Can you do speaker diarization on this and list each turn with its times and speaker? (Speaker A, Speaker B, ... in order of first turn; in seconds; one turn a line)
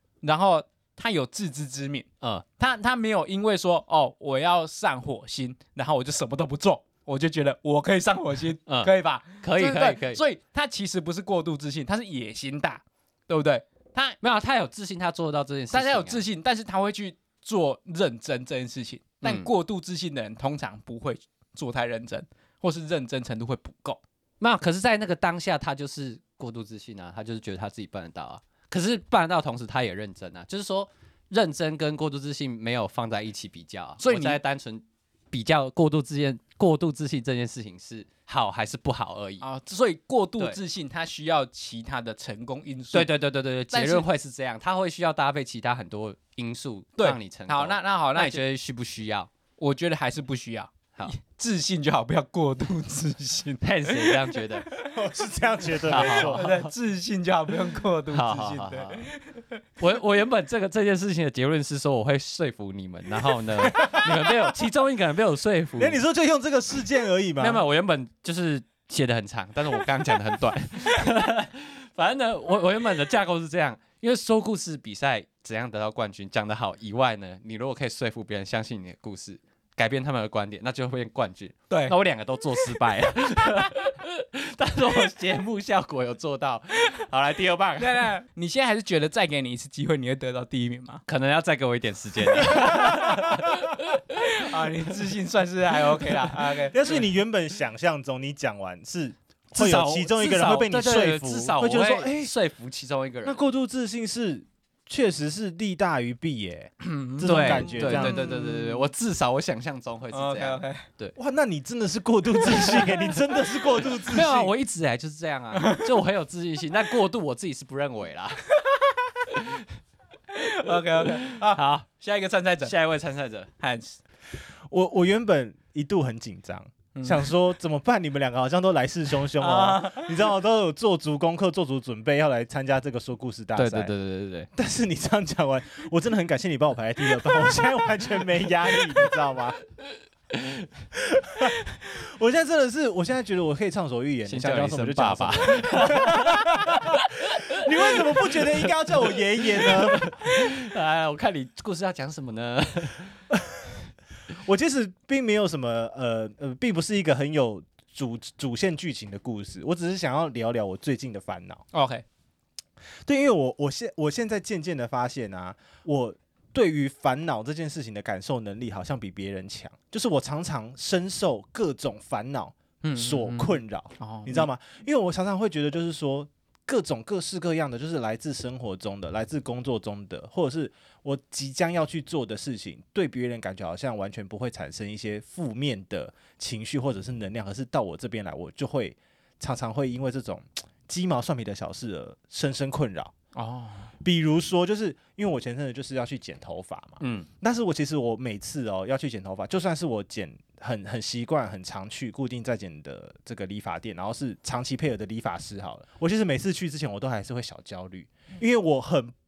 Speaker A: 0.2-2.1
Speaker A: 2.6-14.2
Speaker B: 8.7-10.2
Speaker B: 14.2-16.2
Speaker A: 15.7-24.0
Speaker B: 19.2-19.5
Speaker B: 24.4-39.5
Speaker A: 34.0-34.4
Speaker A: 39.4-43.1
Speaker B: 42.9-49.3
Speaker A: 43.7-44.1
Speaker A: 47.0-48.4
Speaker A: 49.6-54.9
Speaker B: 53.6-54.7
Speaker C: 54.9-56.5
Speaker B: 55.9-56.7
Speaker A: 55.9-59.4
Speaker B: 58.1-59.1
Speaker B: 59.8-66.0
Speaker C: 63.6-64.4
Speaker C: 65.8-67.6
Speaker B: 67.4-88.1
Speaker A: 81.7-82.0
Speaker A: 87.8-91.0
Speaker B: 91.1-94.3
Speaker C: 92.5-93.8
Speaker A: 92.6-93.2
Speaker A: 94.1-97.0
Speaker C: 96.6-102.3
Speaker B: 99.5-103.4
Speaker C: 103.2-108.2
Speaker A: 106.8-108.8
Speaker B: 107.2-111.1
Speaker A: 110.1-110.8
Speaker C: 111.2-114.5
Speaker B: 114.0-118.5
Speaker A: 115.5-115.8
Speaker B: 119.3-119.6
Speaker A: 120.3-122.7
Speaker B: 121.3-121.9
Speaker B: 122.6-123.5
Speaker A: 123.6-124.0
Speaker C: 124.7-133.9
Speaker A: 126.9-127.3
Speaker A: 129.4-130.2
Speaker B: 133.6-134.5
Speaker C: 134.5-139.6
Speaker B: 140.3-140.7
Speaker C: 140.9-150.1
Speaker B: 144.3-153.2
Speaker C: 153.3-153.8
Speaker C: 154.3-161.6
Speaker A: 161.7-162.0
Speaker C: 163.1-193.1
Speaker A: 172.8-174.5
Speaker A: 193.3-193.9
Speaker C: 194.0-209.1
Speaker B: 197.0-197.3